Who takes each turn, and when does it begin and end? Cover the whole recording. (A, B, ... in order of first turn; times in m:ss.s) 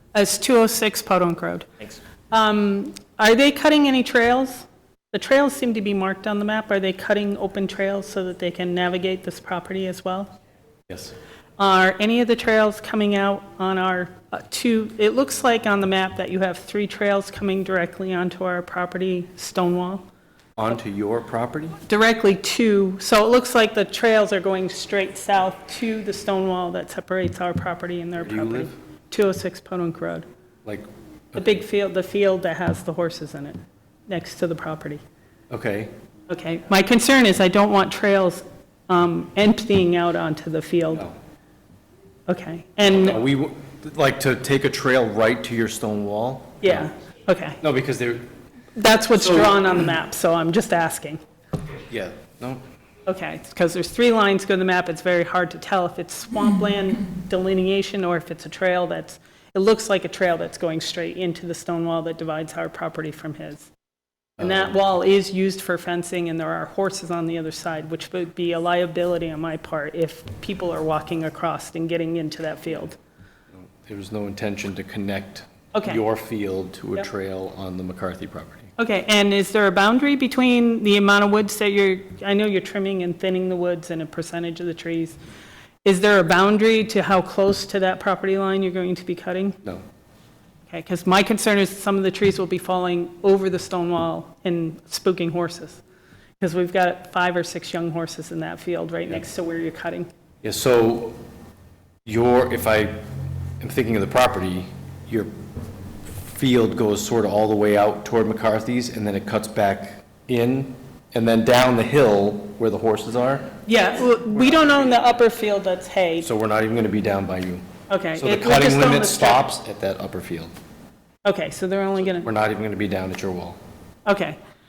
0:00.1-0:01.7 A
0:02.3-0:10.3 A
0:10.9-0:11.1 B
0:11.6-0:20.0 A
0:20.6-0:21.8 B
0:21.8-0:30.3 A
0:28.2-0:28.7 B
0:30.6-0:31.4 B
0:31.3-0:35.0 A
0:35.5-0:35.9 B
0:36.3-0:41.0 A
0:42.3-0:43.2 A
0:43.0-0:46.9 B
0:46.6-0:47.6 A
0:47.6-0:48.3 B
0:48.8-0:51.2 A
0:49.1-0:49.7 B
0:51.9-0:52.6 B
0:53.0-1:03.7 A
1:04.4-1:04.7 B
1:04.4-1:13.0 A
1:13.5-1:18.7 B
1:15.7-1:16.0 A
1:18.8-1:25.2 A
1:25.8-1:29.6 A
1:30.7-1:35.8 A
1:36.4-1:40.1 A
1:40.4-1:41.2 B
1:42.0-1:43.0 B
1:43.6-1:45.3 B
1:46.2-1:53.5 B
1:53.6-1:56.3 A
1:54.3-1:55.1 B
1:56.2-1:57.6 B
1:57.9-1:59.4 A
1:58.2-2:00.5 B
2:01.2-2:02.3 A
2:02.2-2:03.6 B
2:04.0-2:04.4 A